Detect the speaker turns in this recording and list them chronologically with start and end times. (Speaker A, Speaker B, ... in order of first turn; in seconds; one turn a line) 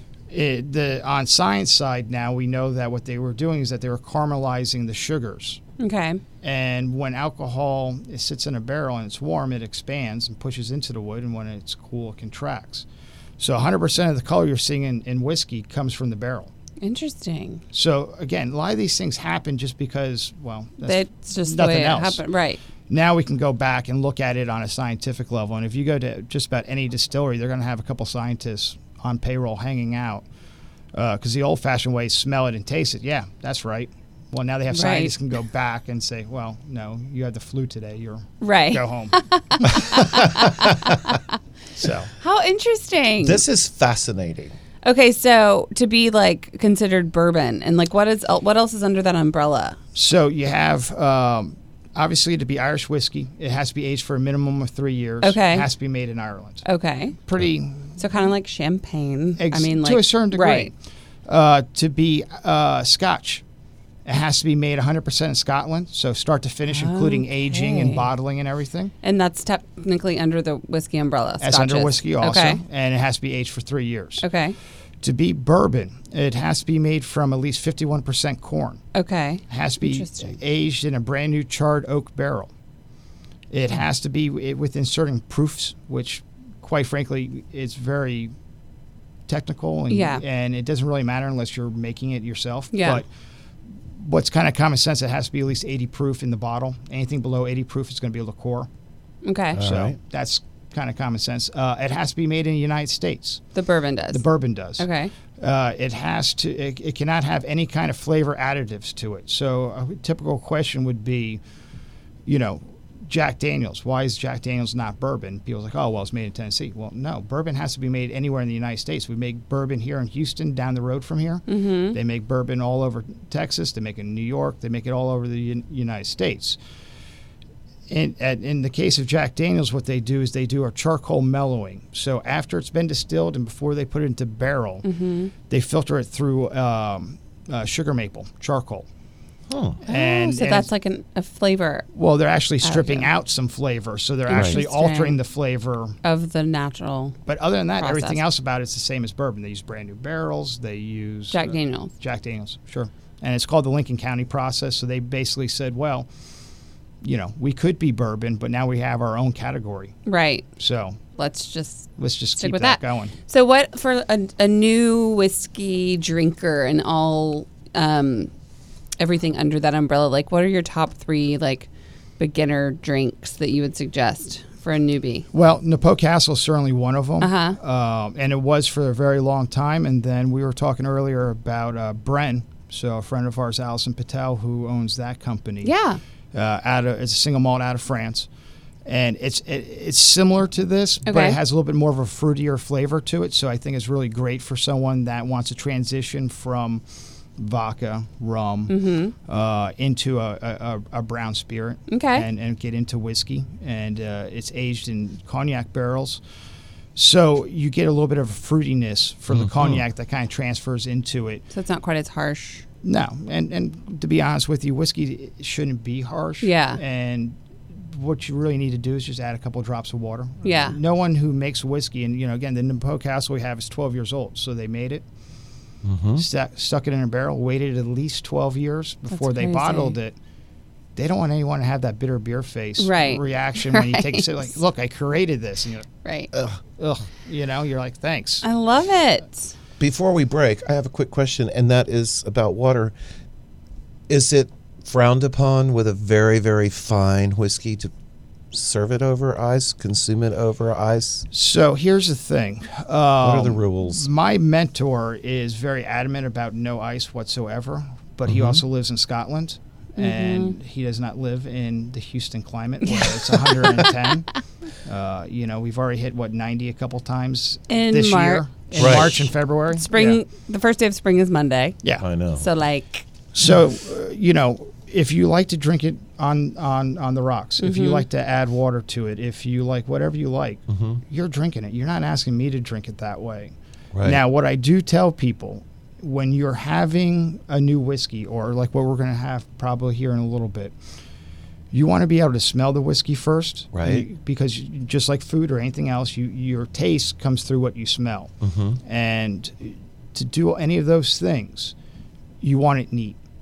Speaker A: 0.3-5.6
Speaker B: 5.8-6.2
Speaker A: 6.4-12.9
Speaker A: 13.4-16.5
Speaker B: 16.8-17.6
Speaker A: 17.7-22.2
Speaker B: 20.8-22.6
Speaker A: 22.9-30.3
Speaker A: 30.9-40.0
Speaker B: 34.7-35.2
Speaker B: 38.4-41.2
Speaker A: 41.8-42.1
Speaker B: 42.2-43.4
Speaker C: 43.2-44.5
Speaker B: 44.8-49.8
Speaker A: 50.0-56.6
Speaker B: 55.2-55.7
Speaker B: 56.6-57.2
Speaker A: 57.2-58.0
Speaker B: 58.0-60.7
Speaker A: 59.4-60.7
Speaker A: 61.3-63.4
Speaker A: 64.0-68.9
Speaker B: 66.7-68.1
Speaker B: 69.0-72.6
Speaker A: 71.4-74.2
Speaker B: 74.2-74.6
Speaker A: 75.0-78.8
Speaker B: 79.0-80.3
Speaker A: 79.5-82.5
Speaker A: 83.5-88.3
Speaker A: 89.3-93.1
Speaker B: 89.9-90.2
Speaker B: 92.7-93.0
Speaker A: 93.9-98.7
Speaker B: 99.2-99.6
Speaker C: 99.5-100.0
Speaker A: 99.6-103.4
Speaker B: 103.5-105.1
Speaker A: 104.1-104.9
Speaker A: 105.4-111.4
Speaker A: 112.3-126.6
Speaker B: 121.5-122.0
Speaker A: 127.9-134.9
Speaker B: 134.8-135.3
Speaker A: 135.5-138.9
Speaker C: 139.5-139.8
Speaker A: 139.8-140.7
Speaker B: 139.9-141.9
Speaker A: 141.9-145.9
Speaker B: 142.6-143.1
Speaker B: 144.3-145.2
Speaker C: 144.3-144.6
Speaker B: 146.0-147.2
Speaker A: 147.3-156.1
Speaker B: 147.8-148.2
Speaker B: 151.3-151.9
Speaker A: 157.0-159.9
Speaker B: 160.1-160.5
Speaker A: 160.6-161.0
Speaker B: 161.2-168.3
Speaker A: 162.0-163.1
Speaker B: 169.0-171.7
Speaker B: 172.2-175.3
Speaker A: 175.3-185.7
Speaker B: 177.2-177.6
Speaker B: 185.6-186.0
Speaker A: 186.3-188.3
Speaker A: 188.9-196.8
Speaker B: 191.1-191.4
Speaker A: 197.4-206.2
Speaker B: 198.7-199.2
Speaker B: 201.9-202.3
Speaker A: 206.9-211.4
Speaker C: 209.3-209.8
Speaker B: 211.5-212.6
Speaker A: 212.8-225.1
Speaker B: 216.4-216.8
Speaker B: 220.4-220.8
Speaker C: 225.8-226.2
Speaker A: 226.2-230.2
Speaker B: 229.1-230.0
Speaker A: 231.0-235.9
Speaker B: 232.8-234.5
Speaker B: 236.0-236.3
Speaker C: 236.3-236.6
Speaker A: 236.8-238.5
Speaker B: 238.4-239.5
Speaker C: 239.8-242.9
Speaker C: 244.1-247.9
Speaker C: 248.5-251.3
Speaker A: 251.3-264.3
Speaker C: 253.2-254.1
Speaker C: 258.3-258.6
Speaker B: 260.0-260.6
Speaker B: 262.9-263.9
Speaker A: 264.8-270.2
Speaker B: 267.7-271.8
Speaker C: 268.8-269.3
Speaker C: 272.0-272.5
Speaker B: 272.3-273.1
Speaker A: 273.3-290.8
Speaker B: 277.6-278.1
Speaker C: 280.7-281.0
Speaker C: 283.9-284.2
Speaker A: 291.7-301.7
Speaker C: 293.7-294.1
Speaker C: 298.4-298.8
Speaker A: 302.4-303.2